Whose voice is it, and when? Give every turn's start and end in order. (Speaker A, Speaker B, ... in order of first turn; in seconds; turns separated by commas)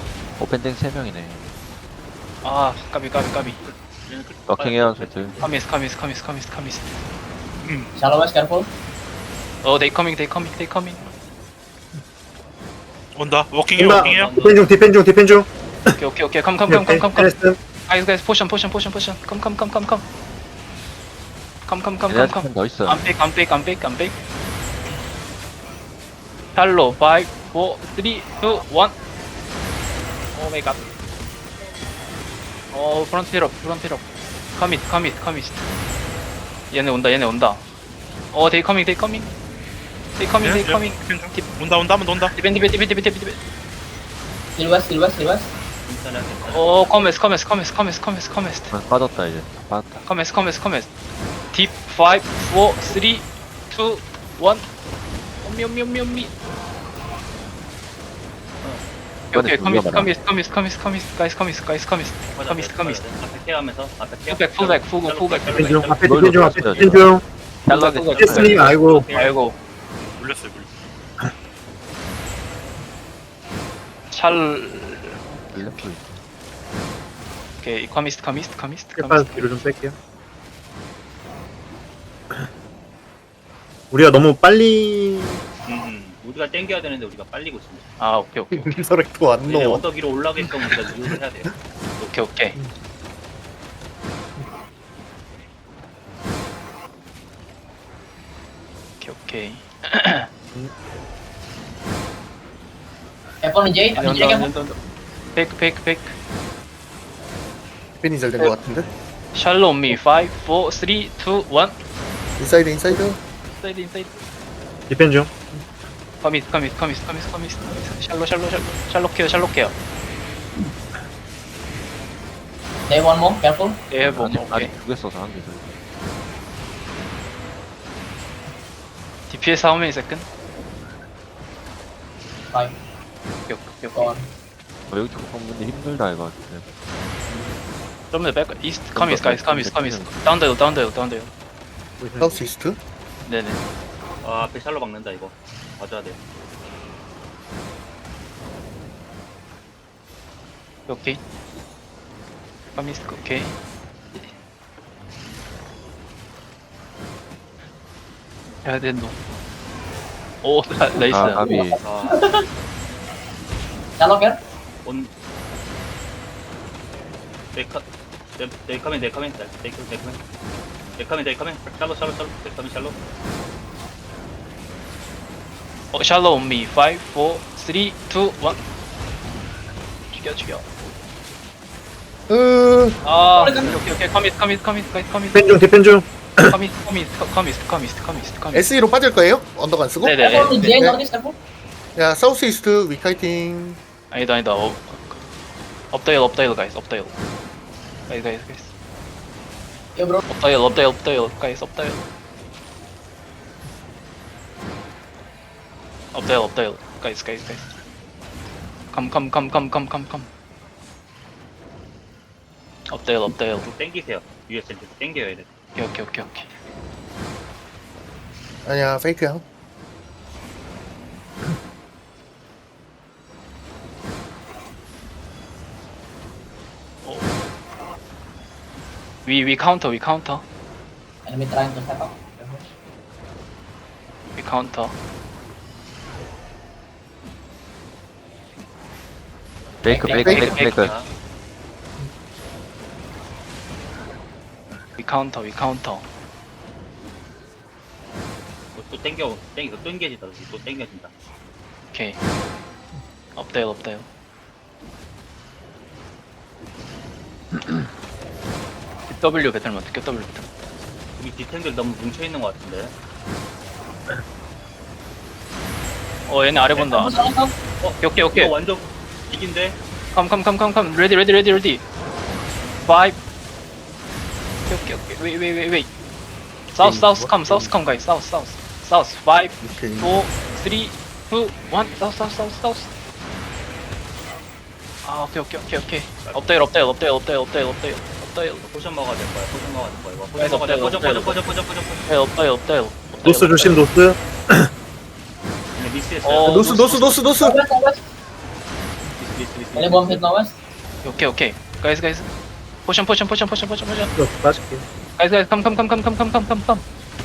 Speaker A: 0.4-1.5, Speaker B: 2.4-3.6, Speaker C: 3.5-5.5, Speaker A: 4.5-5.3, Speaker B: 5.4-7.0, Speaker D: 7.6-7.9, Speaker E: 8.0-8.7, Speaker B: 9.6-11.1, Speaker D: 13.2-14.3, Speaker F: 13.8-15.9, Speaker C: 13.9-14.7, Speaker B: 16.0-17.3, Speaker F: 16.6-17.6, Speaker B: 17.9-20.0, Speaker B: 21.6-24.1, Speaker A: 22.1-23.1, Speaker B: 26.5-28.9, Speaker B: 30.3-30.8, Speaker B: 32.7-35.6, Speaker B: 36.7-37.6, Speaker B: 38.3-39.3, Speaker B: 40.2-41.4, Speaker D: 40.4-42.3, Speaker B: 42.4-43.4, Speaker E: 44.5-45.5, Speaker C: 45.9-47.1, Speaker B: 46.5-48.7, Speaker A: 48.7-50.0, Speaker B: 50.0-50.9, Speaker B: 51.5-54.7, Speaker B: 55.4-56.3, Speaker C: 58.6-58.9, Speaker B: 59.3-63.0, Speaker A: 59.3-60.1, Speaker C: 62.3-66.8, Speaker B: 64.3-65.9, Speaker F: 65.5-67.2, Speaker A: 66.0-67.0, Speaker A: 67.7-68.6, Speaker B: 67.7-69.5, Speaker F: 68.1-69.1, Speaker C: 68.3-69.3, Speaker D: 70.2-70.7, Speaker B: 74.1-75.9, Speaker A: 75.5-76.1, Speaker B: 77.6-79.6, Speaker F: 79.0-79.9, Speaker F: 83.9-85.4, Speaker C: 85.7-87.8, Speaker B: 88.0-88.7, Speaker G: 88.5-89.9, Speaker C: 89.4-92.1, Speaker B: 92.1-92.6, Speaker B: 99.0-100.3, Speaker E: 103.4-104.5, Speaker B: 104.0-104.8, Speaker B: 105.3-106.1, Speaker G: 108.0-108.9, Speaker B: 109.3-111.8, Speaker G: 112.4-113.2, Speaker B: 113.5-114.2, Speaker F: 114.9-115.6, Speaker B: 116.2-119.7, Speaker E: 122.9-123.8, Speaker B: 123.9-124.8, Speaker A: 124.0-125.7, Speaker B: 129.3-130.3, Speaker B: 133.5-134.2, Speaker E: 133.9-134.3, Speaker A: 134.9-136.6, Speaker B: 138.1-141.3, Speaker A: 138.9-140.1, Speaker F: 142.0-142.4, Speaker G: 142.2-142.8, Speaker B: 143.2-143.6, Speaker C: 144.2-146.2, Speaker B: 150.9-151.2, Speaker B: 152.7-153.6, Speaker B: 158.6-159.1, Speaker B: 160.4-161.4, Speaker A: 161.1-161.8, Speaker E: 161.2-162.4, Speaker C: 161.8-162.2, Speaker E: 164.0-164.4, Speaker C: 164.8-165.1, Speaker C: 167.5-167.8, Speaker C: 168.4-170.2, Speaker C: 171.0-172.9, Speaker B: 175.9-178.6, Speaker B: 180.1-180.6, Speaker G: 182.3-183.0, Speaker B: 183.0-185.5, Speaker E: 183.3-183.8, Speaker F: 185.3-186.6, Speaker B: 186.5-188.7, Speaker G: 188.5-191.0, Speaker B: 190.0-190.6, Speaker E: 190.2-191.4, Speaker G: 191.9-193.8, Speaker B: 194.1-195.2, Speaker B: 195.9-197.1, Speaker B: 198.1-198.7, Speaker E: 199.9-200.2, Speaker B: 200.3-202.1, Speaker B: 206.1-207.7, Speaker B: 208.9-210.3, Speaker B: 212.9-213.7, Speaker C: 213.6-215.5, Speaker B: 215.8-216.5, Speaker G: 218.6-219.4, Speaker B: 227.0-227.3, Speaker B: 229.2-230.4, Speaker E: 231.2-232.6, Speaker B: 234.3-234.9, Speaker A: 239.8-240.9, Speaker E: 239.8-240.3, Speaker B: 240.0-240.9, Speaker C: 240.1-241.1, Speaker B: 245.0-246.0, Speaker C: 248.8-251.1, Speaker B: 251.9-252.2, Speaker B: 253.3-254.1, Speaker B: 259.1-260.4, Speaker C: 261.2-262.9, Speaker B: 266.3-267.2, Speaker E: 266.9-267.5, Speaker C: 267.8-269.8, Speaker B: 268.0-268.5, Speaker B: 270.1-271.8, Speaker B: 272.8-273.2, Speaker B: 274.7-275.9, Speaker B: 276.7-282.9, Speaker G: 276.8-277.8, Speaker G: 279.6-280.2, Speaker B: 285.0-288.6, Speaker C: 286.2-286.5, Speaker C: 288.6-292.0, Speaker B: 290.3-291.5, Speaker B: 292.1-293.8, Speaker F: 293.2-294.7, Speaker C: 295.7-296.7, Speaker B: 296.2-297.2, Speaker G: 296.4-297.6, Speaker E: 297.4-298.0, Speaker C: 299.1-300.2, Speaker E: 299.7-300.5, Speaker B: 301.0-302.3, Speaker B: 302.9-304.1, Speaker F: 304.1-304.8, Speaker B: 305.2-306.8